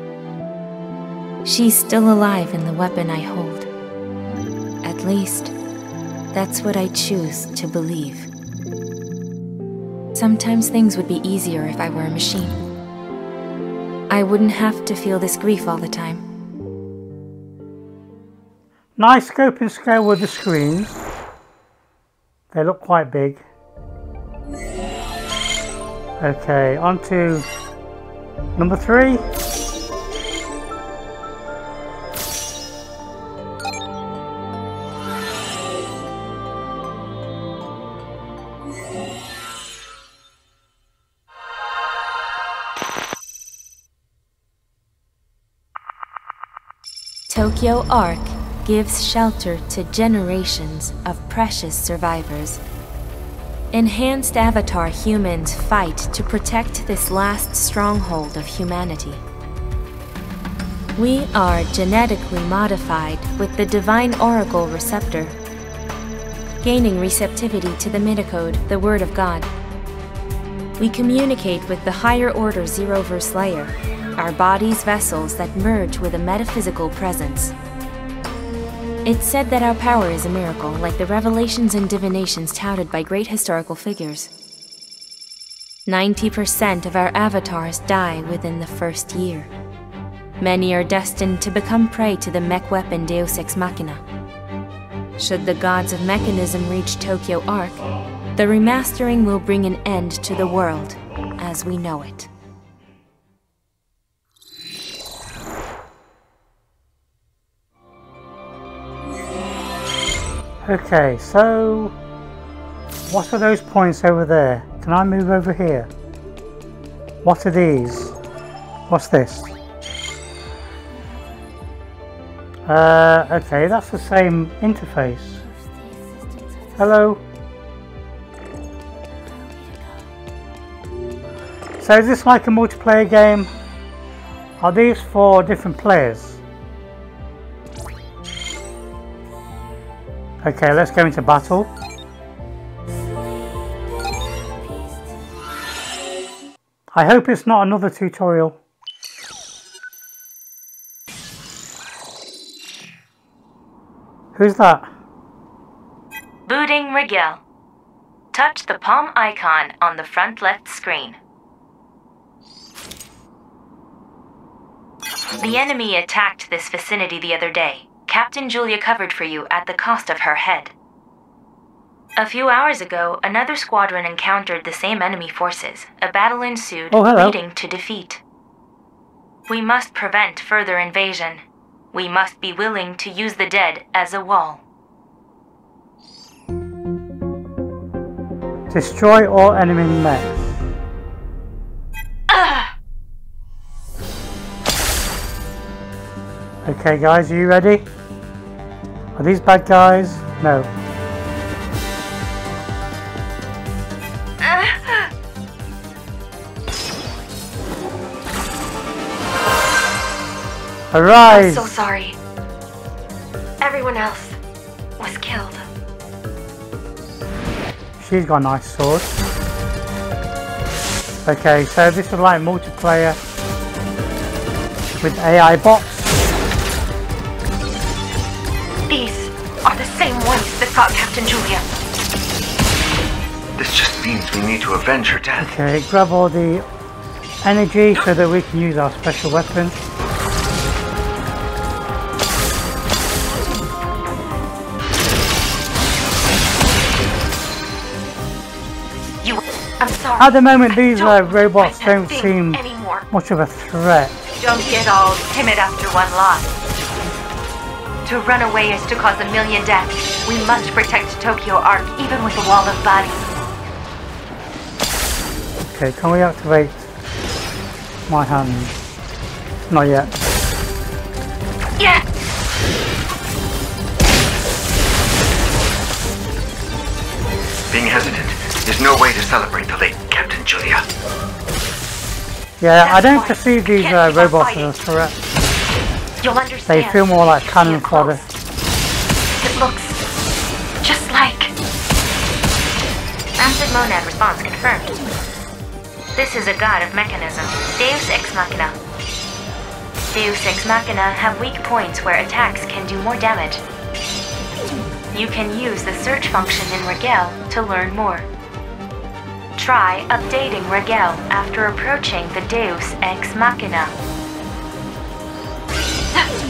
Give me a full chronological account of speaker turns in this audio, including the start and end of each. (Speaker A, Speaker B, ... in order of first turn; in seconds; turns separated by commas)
Speaker A: 1.4-3.7, Speaker A: 4.8-5.5, Speaker A: 6.3-8.3, Speaker A: 10.1-12.6, Speaker A: 14.1-16.2, Speaker B: 19.0-21.0, Speaker B: 22.5-23.4, Speaker B: 26.2-27.5, Speaker B: 28.6-29.3, Speaker A: 47.3-52.6, Speaker A: 53.7-59.2, Speaker A: 61.0-65.3, Speaker A: 66.6-69.5, Speaker A: 70.8-77.5, Speaker A: 79.0-84.3, Speaker A: 85.9-89.5, Speaker A: 90.4-94.0, Speaker A: 95.2-97.8, Speaker A: 98.3-102.3, Speaker B: 110.6-112.0, Speaker B: 113.1-115.9, Speaker B: 117.2-118.2, Speaker B: 118.9-119.5, Speaker B: 122.7-125.4, Speaker B: 126.8-127.2, Speaker B: 131.8-133.5, Speaker B: 134.6-136.4, Speaker B: 140.4-141.7, Speaker B: 146.9-148.6, Speaker B: 154.3-154.9, Speaker A: 156.5-157.4, Speaker A: 158.3-161.2, Speaker A: 165.4-170.7, Speaker A: 172.2-178.2, Speaker B: 176.9-177.4, Speaker A: 179.5-184.6, Speaker B: 188.7-190.6, Speaker C: 192.3-192.7, Speaker B: 196.6-197.8, Speaker B: 199.2-200.7, Speaker C: 204.4-205.1, Speaker B: 210.9-211.8, Speaker C: 211.3-212.2, Speaker C: 213.6-214.4, Speaker C: 215.0-215.7, Speaker B: 218.0-219.1, Speaker B: 221.2-223.2, Speaker B: 225.0-226.2, Speaker C: 228.9-231.7, Speaker D: 233.6-235.5, Speaker B: 235.4-236.6, Speaker B: 237.4-239.8, Speaker C: 249.2-253.1, Speaker B: 250.2-254.2, Speaker C: 254.4-254.8, Speaker E: 254.5-256.5, Speaker E: 258.0-263.2, Speaker B: 265.7-266.9, Speaker B: 268.1-268.7, Speaker B: 269.7-270.1, Speaker C: 271.8-272.1, Speaker D: 277.7-280.8, Speaker B: 282.6-285.1, Speaker C: 282.8-284.7, Speaker C: 286.2-288.3, Speaker B: 286.7-288.2, Speaker C: 289.4-290.0, Speaker C: 290.8-291.5, Speaker A: 293.4-294.9, Speaker A: 296.1-298.8, Speaker A: 300.1-303.6, Speaker A: 305.1-308.3, Speaker A: 309.6-313.9